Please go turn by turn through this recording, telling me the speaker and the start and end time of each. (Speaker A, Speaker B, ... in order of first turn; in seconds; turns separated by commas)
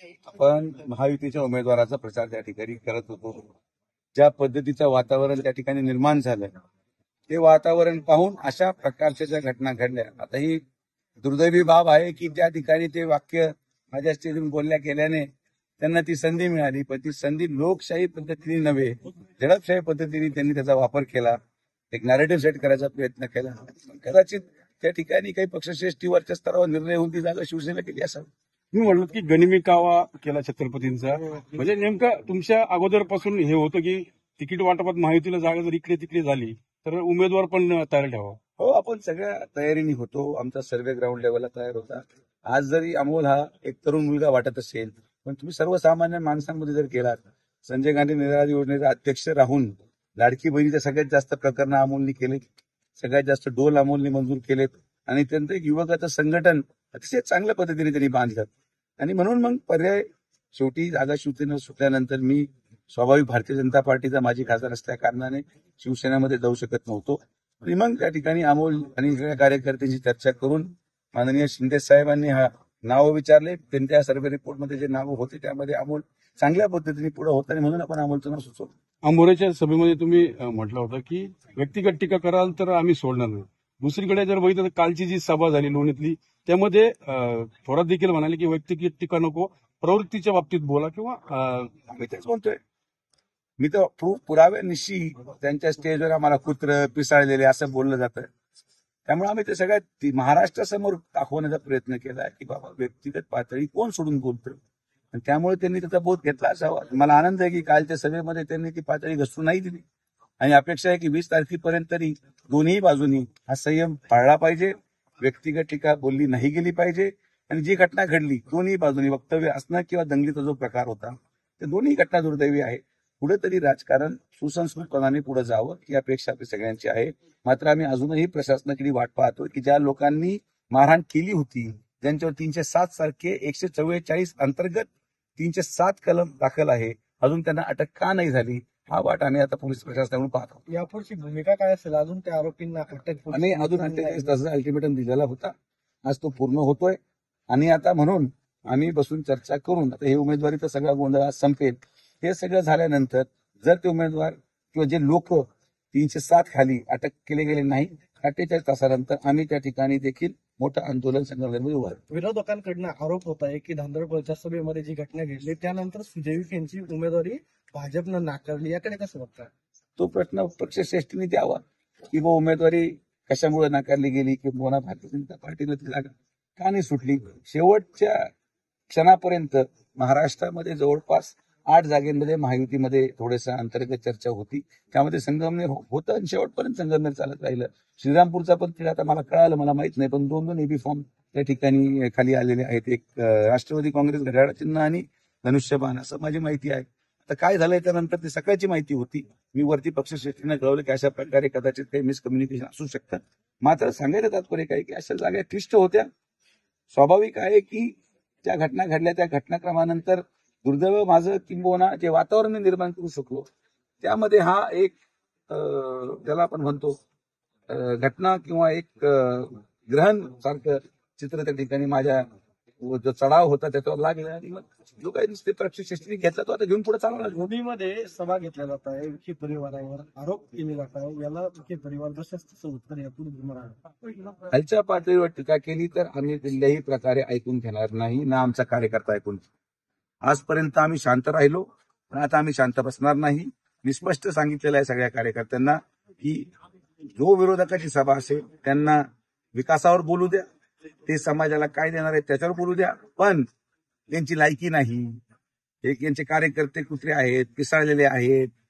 Speaker A: 0.3-3.5, Speaker A: 4.1-6.5, Speaker A: 7.3-10.6, Speaker A: 11.2-15.3, Speaker A: 15.8-21.4, Speaker A: 21.9-28.3, Speaker B: 28.7-38.4, Speaker A: 38.6-52.4, Speaker A: 53.0-78.7, Speaker B: 79.0-91.7, Speaker A: 91.9-92.6, Speaker A: 93.6-98.3, Speaker A: 99.0-104.6, Speaker A: 105.1-109.8, Speaker A: 110.4-140.6, Speaker C: 140.7-144.3, Speaker A: 143.3-145.5, Speaker A: 146.1-147.0, Speaker A: 147.5-162.0, Speaker C: 162.1-169.5, Speaker A: 170.0-178.3, Speaker A: 178.9-206.1, Speaker A: 206.9-213.5, Speaker A: 214.0-214.9, Speaker A: 215.5-217.0, Speaker A: 217.7-222.3, Speaker A: 222.8-227.4, Speaker C: 227.3-233.9, Speaker A: 234.4-239.4, Speaker A: 240.2-250.4, Speaker A: 251.1-253.5, Speaker A: 254.1-255.2, Speaker A: 255.8-258.5